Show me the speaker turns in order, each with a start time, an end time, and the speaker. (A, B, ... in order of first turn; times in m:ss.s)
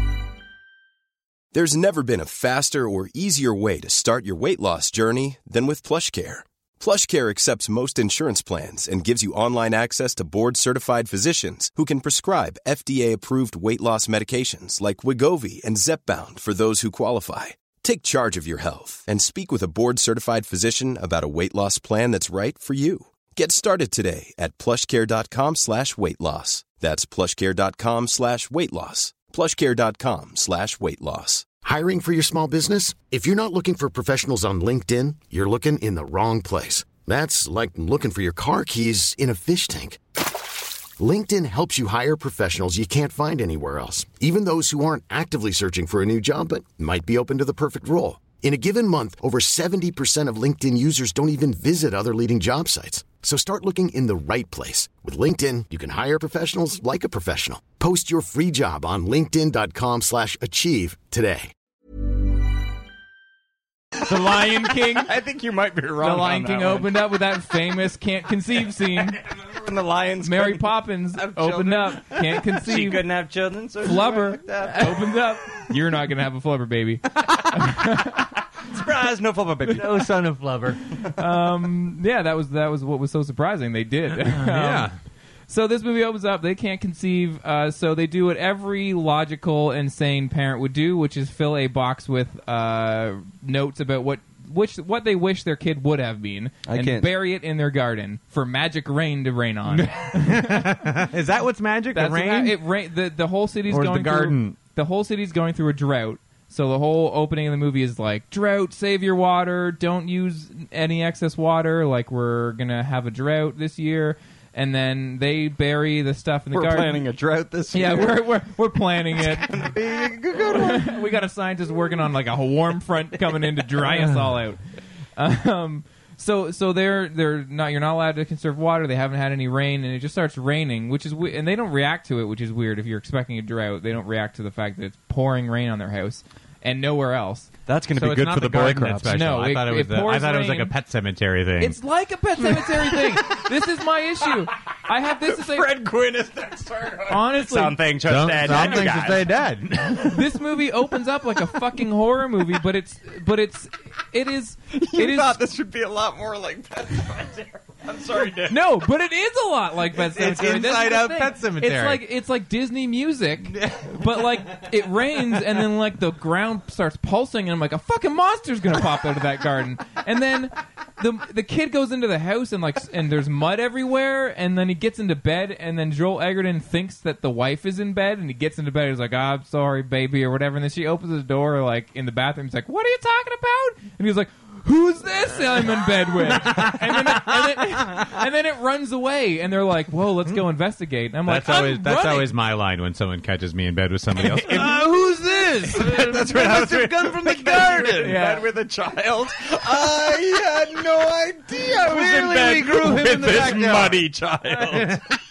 0:01.5-0:31.5 A
0:31.6-0:40.0 B
0:41.0-1:01.5 B
1:04.0-1:05.1 C
1:04.9-1:06.9 D
1:06.0-1:09.2 C
1:09.2-1:15.2 D
1:10.2-1:13.1 C
1:13.8-1:18.3 C
1:18.6-1:20.1 D
1:19.7-1:20.8 E
1:21.1-1:24.9 C
1:24.1-1:25.0 E
1:25.5-1:40.8 C
1:36.7-1:37.1 D
1:39.7-1:42.6 E
1:41.9-1:57.0 C
1:43.7-1:44.6 E
1:56.5-1:58.3 D
1:57.7-1:59.6 C
1:59.2-2:01.0 D
2:00.4-2:04.6 C
2:03.9-2:04.4 E
2:05.2-2:17.5 C
2:17.7-2:19.2 D
2:18.0-2:21.8 E
2:19.1-2:20.7 C
2:21.6-2:25.7 C
2:22.8-2:23.4 D
2:25.2-2:29.3 D
2:27.1-2:27.8 C
2:28.0-2:30.3 E
2:28.5-2:28.8 C
2:30.0-2:35.4 C
2:34.7-2:38.6 D
2:38.5-3:12.3 C
2:39.9-2:42.0 E
2:43.6-2:43.9 D
3:06.3-3:08.1 E
3:11.2-3:18.2 E
3:14.3-3:25.0 D
3:18.0-3:18.4 C
3:21.6-3:25.2 E